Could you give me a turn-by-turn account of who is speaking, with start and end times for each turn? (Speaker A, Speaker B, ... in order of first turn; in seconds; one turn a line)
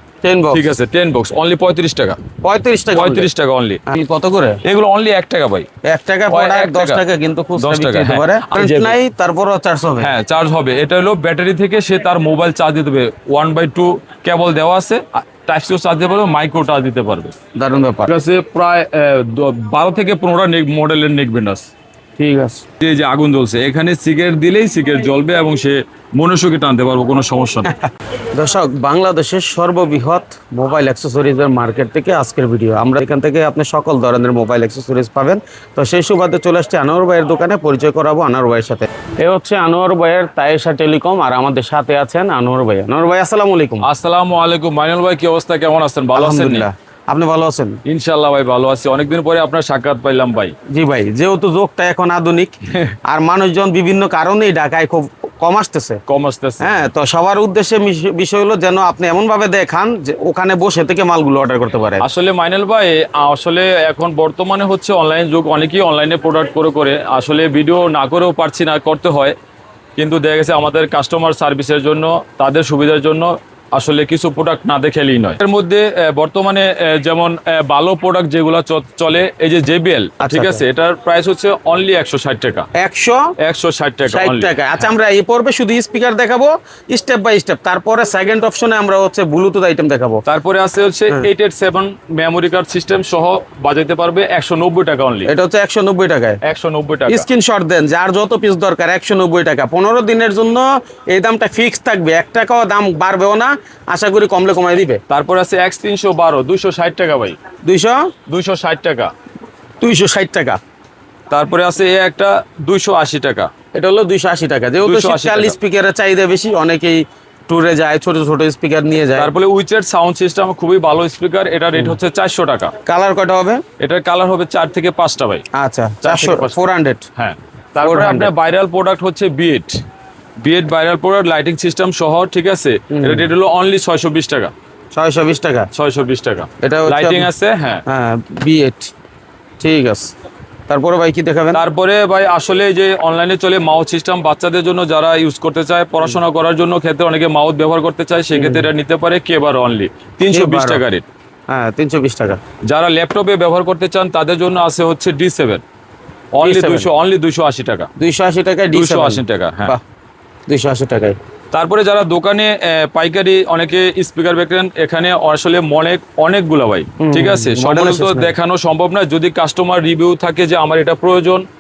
Speaker A: 0.2-0.7
Speaker B: 0.5-2.2
Speaker A: 2.4-3.3
Speaker B: 2.9-3.8
Speaker A: 3.9-4.6
Speaker B: 4.6-5.7
Speaker A: 5.9-10.1
Speaker B: 6.3-7.0
Speaker B: 7.6-9.0
Speaker B: 10.0-17.4
Speaker A: 17.6-18.1
Speaker B: 18.1-21.7
Speaker A: 22.2-22.6
Speaker B: 22.8-27.7
Speaker A: 28.4-43.9
Speaker B: 43.8-46.6
Speaker A: 46.1-47.8
Speaker B: 47.9-50.5
Speaker A: 50.7-56.0
Speaker B: 56.1-56.9
Speaker A: 56.6-62.0
Speaker B: 62.0-69.3
Speaker B: 70.0-82.7
Speaker A: 80.2-80.6
Speaker A: 82.8-83.3
Speaker B: 83.4-84.5
Speaker A: 84.1-90.2
Speaker B: 90.3-95.3
Speaker A: 95.2-96.4
Speaker B: 96.4-97.3
Speaker A: 97.1-105.0
Speaker B: 105.1-107.4
Speaker A: 107.7-108.1
Speaker B: 108.3-109.1
Speaker A: 109.8-110.6
Speaker B: 111.3-113.5
Speaker A: 113.7-119.3
Speaker B: 114.8-115.5
Speaker B: 119.2-122.7
Speaker A: 122.9-123.6
Speaker B: 123.8-125.5
Speaker A: 125.6-127.1
Speaker B: 126.0-126.6
Speaker B: 127.2-129.8
Speaker A: 127.8-128.3
Speaker B: 130.4-134.5
Speaker A: 132.9-133.3
Speaker A: 134.9-135.7
Speaker B: 135.7-137.8
Speaker A: 136.6-137.3
Speaker A: 137.9-138.9
Speaker A: 139.6-140.1
Speaker A: 140.7-141.6
Speaker B: 141.5-151.1
Speaker A: 148.3-148.7
Speaker A: 150.3-150.8
Speaker A: 151.5-152.4
Speaker B: 152.7-155.6
Speaker B: 156.3-157.9
Speaker A: 156.4-156.9
Speaker A: 158.0-159.8
Speaker B: 158.7-159.8
Speaker A: 160.5-161.2
Speaker B: 161.5-171.4
Speaker A: 167.0-168.3